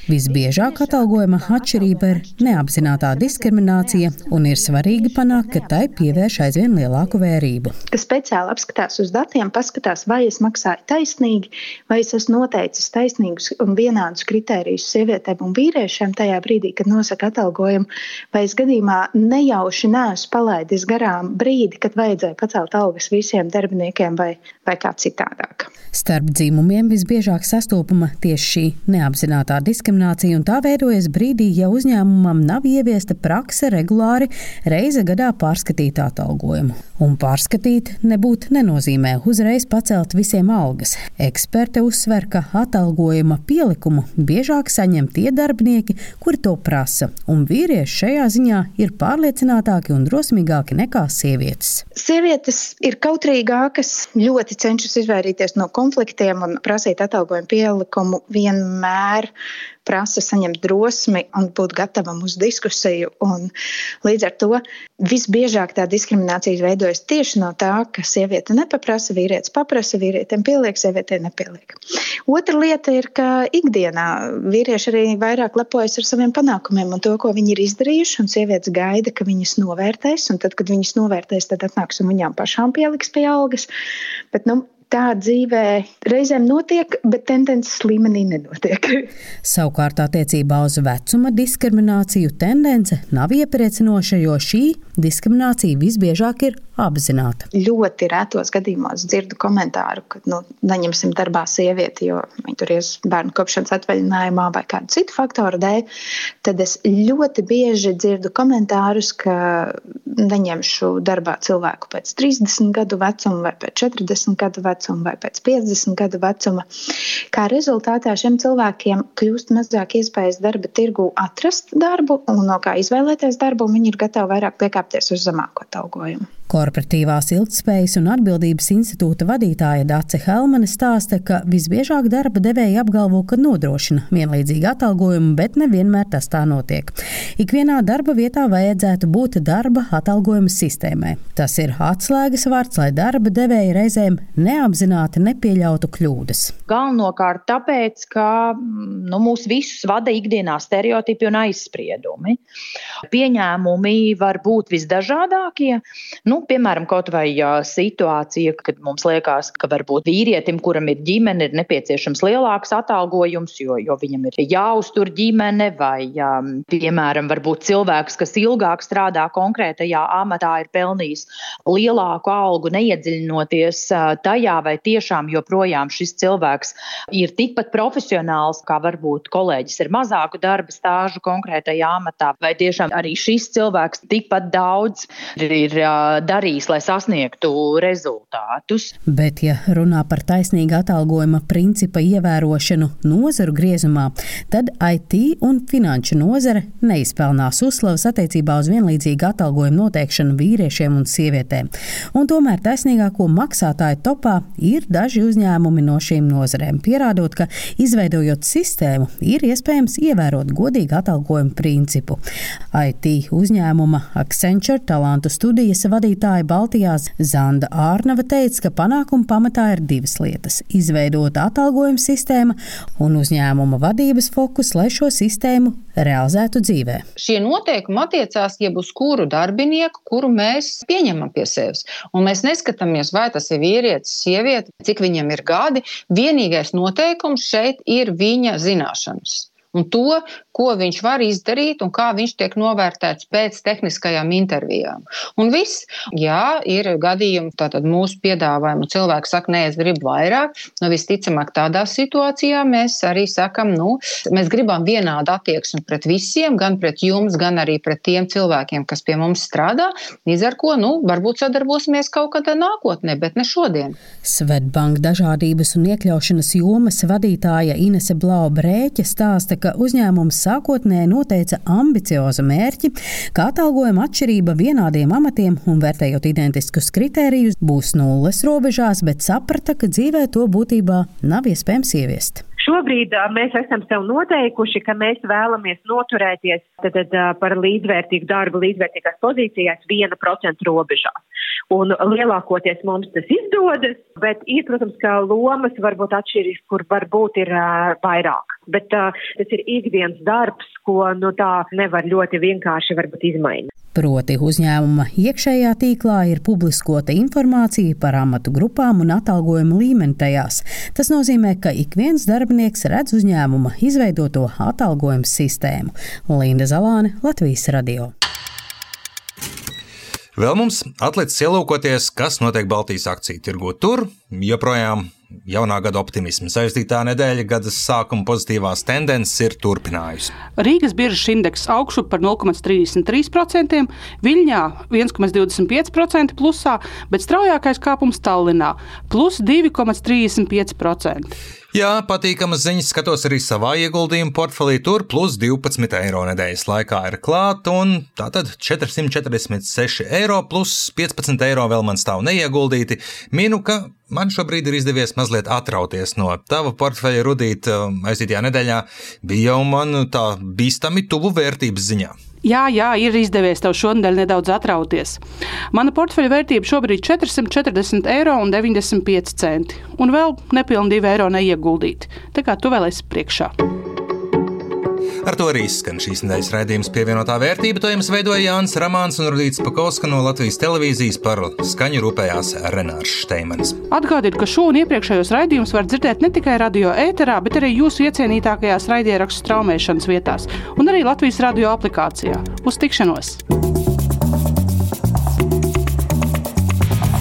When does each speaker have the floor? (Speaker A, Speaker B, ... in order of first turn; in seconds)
Speaker A: 0.1-7.7, 25.9-51.8, 89.4-97.5, 126.5-146.6, 189.1-212.2, 212.7-227.0, 264.2-282.4, 303.9-318.1
Speaker B: 1.2-2.0, 2.7-7.2, 7.9-25.7, 52.0-59.3, 59.9-63.5, 64.0-83.7, 84.3-89.1, 97.5-105.8, 106.4-116.6, 117.3-126.2
Speaker C: 146.7-152.4, 153.1-188.9
Speaker D: 227.2-264.0
Speaker E: 296.2-296.9, 298.8-299.8, 300.4-303.5
Speaker F: 320.4-330.4, 341.7-362.1, 375.2-383.8
Speaker G: 330.6-341.3, 362.4-365.2, 365.7-373.5, 383.9-393.4